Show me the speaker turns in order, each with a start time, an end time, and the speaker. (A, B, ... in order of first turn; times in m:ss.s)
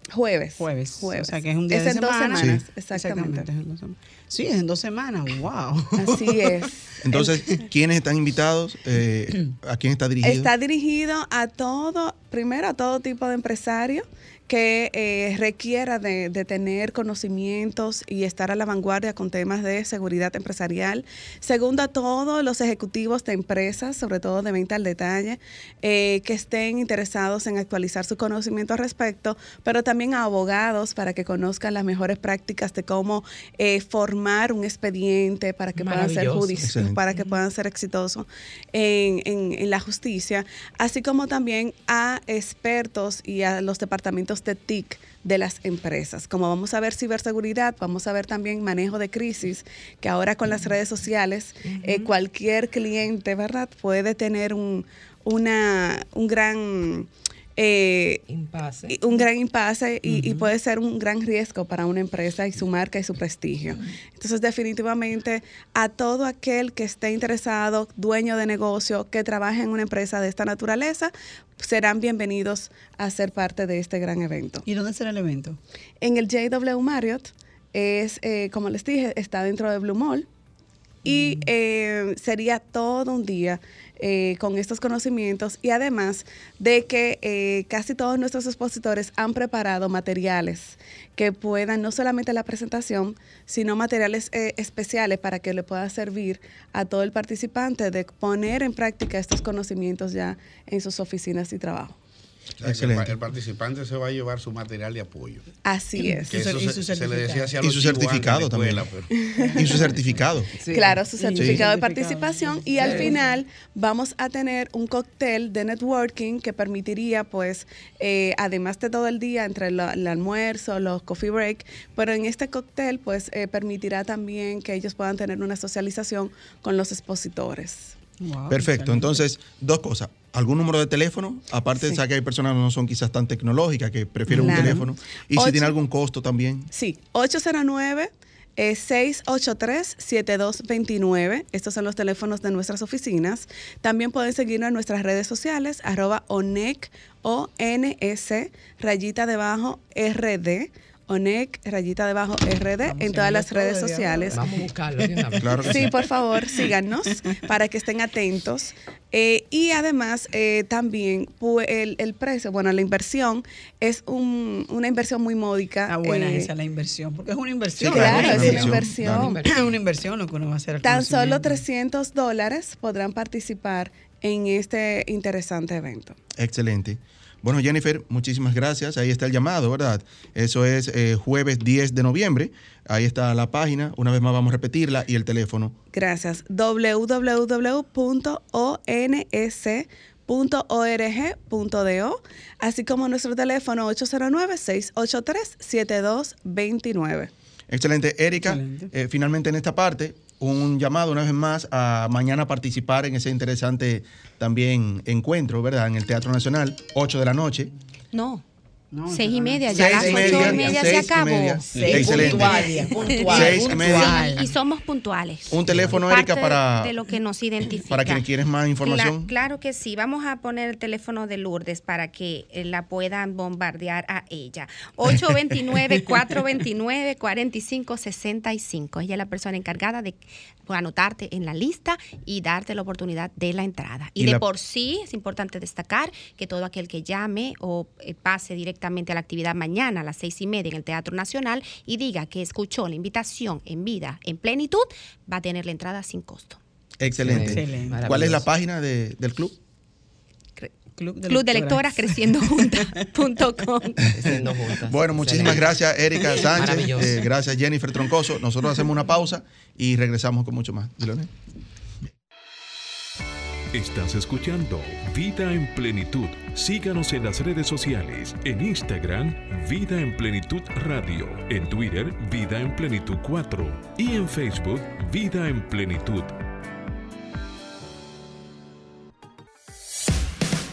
0:00.1-0:03.5 A
0:00.6-0:06.5 B
0:06.0-0:07.2 A
0:07.0-0:10.5 C
0:07.2-0:07.5 B
0:10.2-0:58.2 A
0:35.8-0:36.6 D
0:36.6-0:37.0 C
0:51.7-0:52.1 D
0:58.3-0:59.0 D
0:58.9-1:14.6 A
1:00.0-1:00.5 B
1:14.6-1:15.6 B
1:16.0-1:20.2 A
1:21.0-1:42.0 A
1:21.0-1:21.5 B
1:42.6-1:45.4 E
1:42.6-1:43.2 C
1:45.6-1:46.3 A
1:46.0-1:47.5 B
1:46.3-1:49.1 E
1:47.6-1:48.9 C
1:49.3-1:49.9 A
1:49.4-1:49.9 B
1:49.6-1:50.5 C
1:50.6-1:50.9 D
1:50.7-1:53.4 B
1:50.7-2:07.9 A
1:51.4-1:51.6 C
2:08.2-2:09.2 B
2:08.5-2:16.7 C
2:14.3-2:14.9 B
2:14.3-2:14.8 A
2:15.3-2:15.8 A
2:16.7-2:34.4 A
2:32.8-2:35.4 B
2:34.3-2:35.7 D
2:35.4-2:35.9 C
2:35.6-2:46.5 A
2:45.9-2:51.6 B
2:47.8-2:49.3 C
2:47.8-2:49.5 A
2:48.3-2:49.6 D
2:50.8-2:56.2 A
2:56.4-3:05.8 C
3:05.9-3:17.3 A
3:17.7-3:27.7 C
3:18.4-3:18.9 B
3:28.1-3:28.4 F
3:28.9-3:31.1 B
3:29.1-3:31.8 F
3:29.7-3:32.7 C
3:31.7-3:34.5 B
3:31.8-3:32.0 E
3:31.8-3:34.2 D
3:33.0-3:38.2 F
3:33.3-3:34.2 C
3:35.5-3:36.9 C
3:37.9-3:39.3 C
3:38.8-4:06.6 F
3:54.2-3:54.4 C
4:07.0-4:09.6 C
4:07.2-4:08.4 D
4:07.3-4:08.0 B
4:11.0-4:12.8 B
4:11.2-4:14.0 F
4:14.1-4:15.7 D
4:14.9-4:21.3 C
4:16.5-4:17.2 D
4:23.7-4:36.3 G